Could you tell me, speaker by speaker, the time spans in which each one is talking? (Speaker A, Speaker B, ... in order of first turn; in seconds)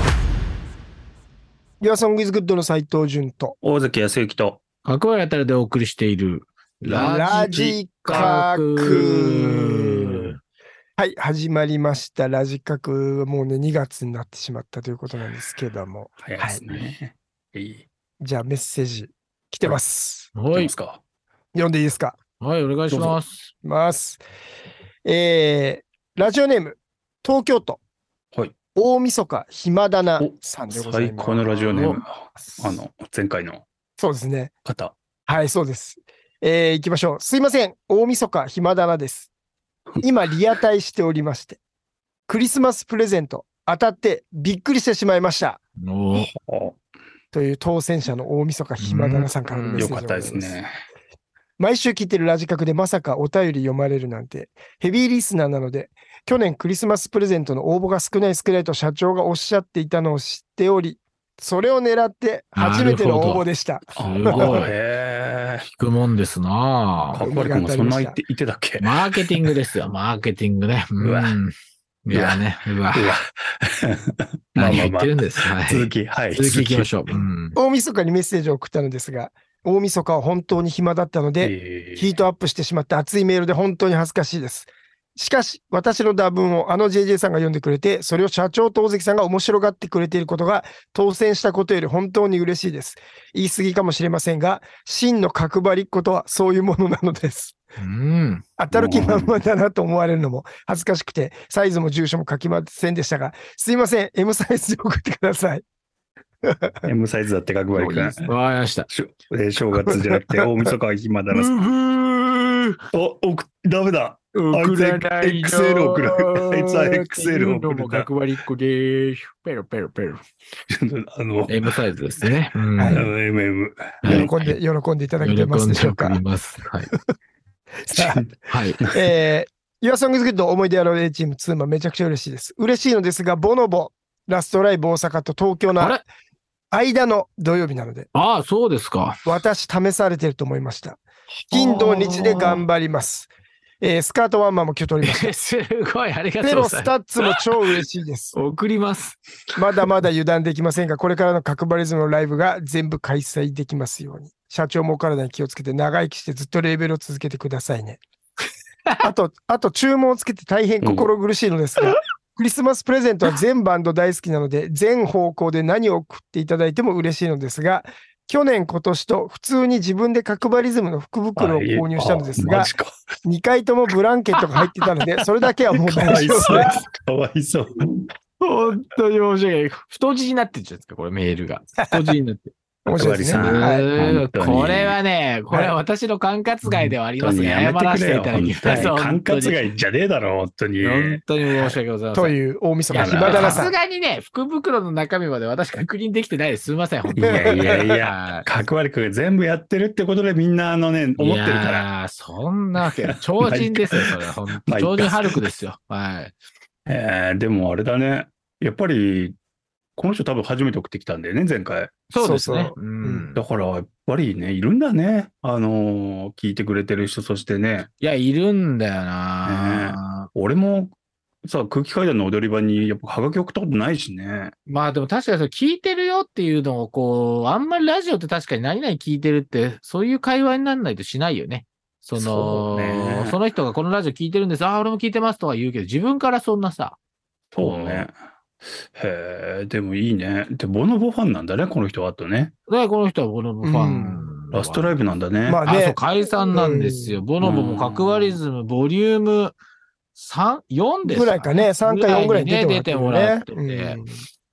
Speaker A: 1.8-3.6, 6.9-9.9, 11.0-16.6, 18.2-20.3, 21.5-22.2, 23.6-24.2, 25.0-27.8, 28.8-31.8, 32.5-32.8, 34.0-34.5, 35.3-39.3, 40.0-41.6, 42.3-45.6, 47.3-50.6, 51.6-64.7, 67.2-68.2, 77.5-97.5, 98.6-105.6, 106.5-106.9, 122.8-123.1, 124.1-126.2, 127.8-128.3, 128.9-136.0, 136.7-138.1, 139.3-145.4, 146.4-148.4, 149.6-158.0, 159.0-172.7, 173.2-176.7, 181.8-182.2, 182.9-183.9, 185.5-185.8, 188.6-188.9, 191.6-193.8, 197.1-197.9, 212.2-213.3, 243.6-244.3, 245.5-247.2, 251.1-254.2
Speaker B: 3.6-4.6, 6.8-9.1, 16.2-17.9, 20.5-21.0, 22.9-23.2, 30.2-33.6, 34.6-34.9, 46.1-46.8, 49.8-50.7, 64.0-65.7, 67.1-69.5, 71.0-71.4, 72.1-77.3, 81.4-82.2, 98.7-99.4, 106.9-108.3, 108.9-111.7, 112.9-118.1, 120.7-121.7, 122.9-124.3, 128.0-129.0, 160.8-161.1, 171.4-172.9, 175.8-178.1, 182.9-185.0, 186.7-191.2, 192.9-193.6, 197.2-201.9, 203.1-204.1, 204.6-205.4, 206.9-209.4, 210.0-211.9, 213.3-217.9, 219.4-224.5, 232.2-233.4, 237.5-238.2, 238.9-242.5, 244.5-245.6, 247.4-248.4
Speaker C: 4.8-10.3, 20.3-20.7, 22.4-23.5, 31.7-32.0, 45.8-46.3, 48.8-49.9, 62.5-63.4, 64.0-64.7, 65.6-67.3, 68.8-71.5, 72.1-73.2, 74.5-77.6, 97.8-98.4, 107.8-108.9, 111.3-112.8, 114.3-120.2, 121.5-123.1, 124.0-124.6, 125.2-126.9, 128.5-128.8, 135.8-136.0, 138.1-139.3, 141.5-142.6, 145.0-147.4, 148.3-149.2, 176.3-176.8, 178.4-182.5, 183.3-189.6, 190.8-192.4, 192.9-198.6, 201.2-206.3, 212.1-213.4, 218.0-220.3, 224.7-237.0, 237.6-238.1, 242.7-245.0, 245.7-249.6, 250.2-254.0